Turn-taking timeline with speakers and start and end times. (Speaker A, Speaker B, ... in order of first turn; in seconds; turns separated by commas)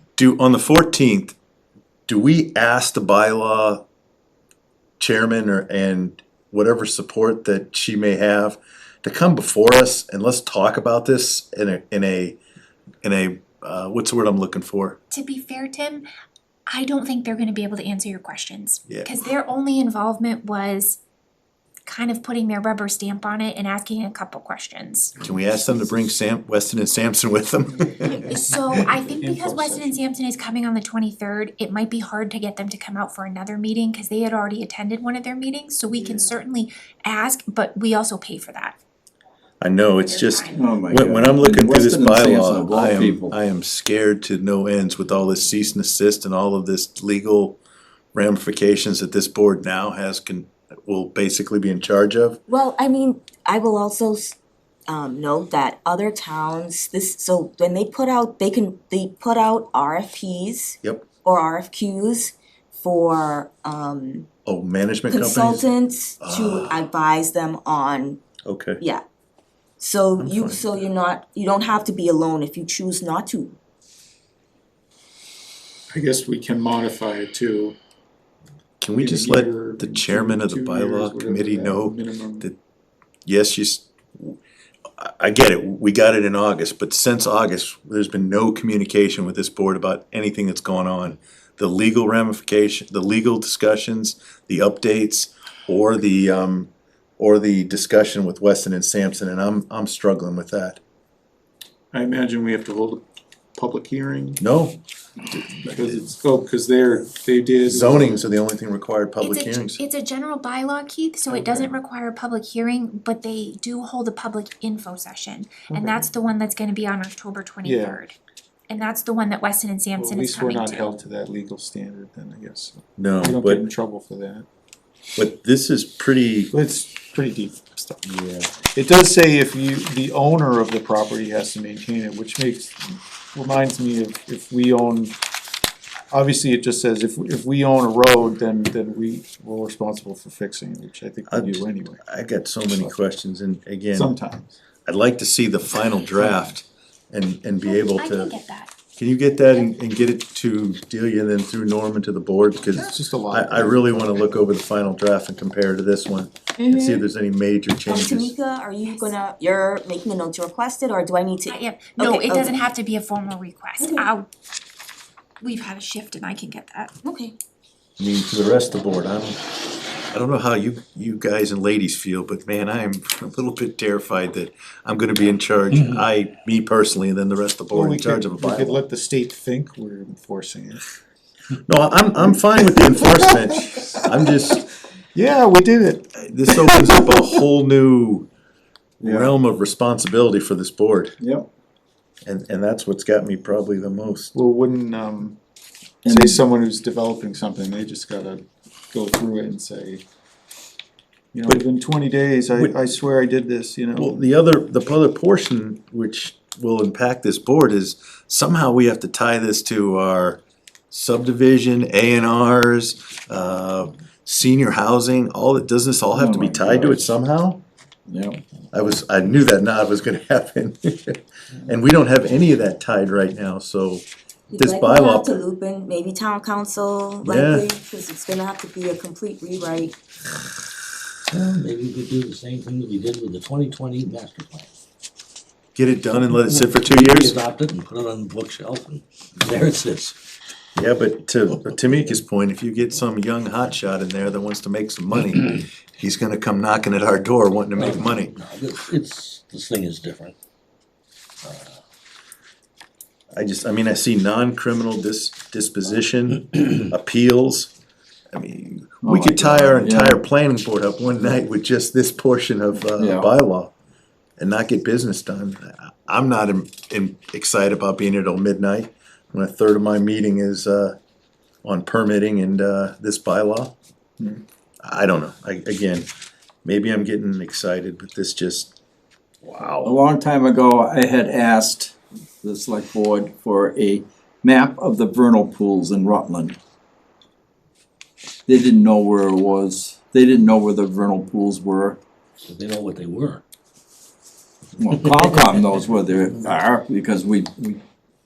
Speaker A: 0.2-1.4, Speaker A: 2.1-3.9, Speaker A: 5.0-12.4, Speaker A: 13.0-15.0, Speaker B: 15.1-16.1, Speaker B: 16.7-21.0, Speaker B: 21.9-25.3, Speaker A: 25.2-28.3, Speaker B: 28.0-38.8, Speaker C: 28.8-30.0, Speaker A: 39.6-47.6, Speaker B: 40.0-40.7, Speaker D: 40.5-43.4, Speaker A: 48.1-52.4, Speaker E: 52.5-54.4, Speaker E: 54.9-64.3, Speaker A: 64.5-65.7, Speaker E: 65.1-68.2, Speaker A: 66.2-66.8, Speaker A: 68.5-68.8, Speaker E: 69.8-73.6, Speaker A: 70.2-70.7, Speaker C: 75.9-77.8, Speaker A: 78.8-82.5, Speaker C: 79.0-82.5, Speaker A: 83.2-84.4, Speaker A: 85.0-100.8, Speaker C: 101.9-103.0, Speaker C: 103.5-104.4, Speaker A: 104.4-104.8, Speaker A: 105.3-106.1, Speaker C: 105.7-108.2, Speaker A: 107.6-109.8, Speaker B: 109.2-118.1, Speaker C: 111.3-111.7, Speaker C: 115.7-116.0, Speaker C: 117.6-118.0, Speaker B: 118.7-121.0, Speaker C: 120.0-124.5, Speaker A: 123.0-123.6, Speaker A: 125.2-126.5, Speaker C: 126.5-135.2, Speaker C: 136.1-142.0, Speaker A: 141.3-144.1, Speaker C: 143.9-144.5, Speaker A: 144.8-148.3, Speaker B: 147.6-148.7, Speaker A: 149.0-158.3, Speaker C: 152.7-154.0, Speaker E: 156.6-157.0, Speaker E: 157.9-162.6, Speaker B: 161.5-164.3, Speaker E: 163.8-164.1, Speaker B: 165.4-166.9, Speaker E: 167.0-167.3, Speaker A: 168.0-169.4, Speaker A: 170.1-178.8, Speaker C: 177.7-180.8, Speaker A: 181.7-184.7, Speaker C: 182.6-183.3, Speaker C: 185.2-187.0, Speaker A: 186.2-188.3, Speaker D: 189.0-189.3, Speaker A: 189.0-191.1, Speaker D: 191.2-191.5, Speaker A: 192.2-194.3, Speaker C: 194.3-195.4, Speaker C: 196.0-200.0, Speaker D: 196.1-196.4, Speaker C: 201.3-204.2, Speaker A: 204.0-217.6, Speaker D: 216.1-217.1, Speaker D: 218.1-218.4, Speaker A: 218.7-224.0, Speaker E: 224.5-229.9, Speaker A: 224.6-225.4, Speaker A: 227.2-227.7, Speaker F: 231.3-234.7, Speaker A: 235.8-237.4, Speaker F: 236.3-240.2, Speaker A: 240.8-248.3, Speaker F: 247.8-250.3, Speaker F: 251.4-251.8, Speaker A: 253.3-257.7, Speaker A: 258.3-263.7, Speaker D: 259.0-260.2, Speaker D: 263.0-263.3, Speaker A: 264.4-270.9, Speaker A: 271.6-273.7, Speaker A: 274.8-276.1, Speaker A: 276.6-278.7, Speaker F: 279.4-279.9, Speaker D: 279.8-286.6, Speaker D: 288.5-292.0, Speaker F: 292.4-293.4, Speaker D: 294.8-297.8, Speaker F: 294.8-296.5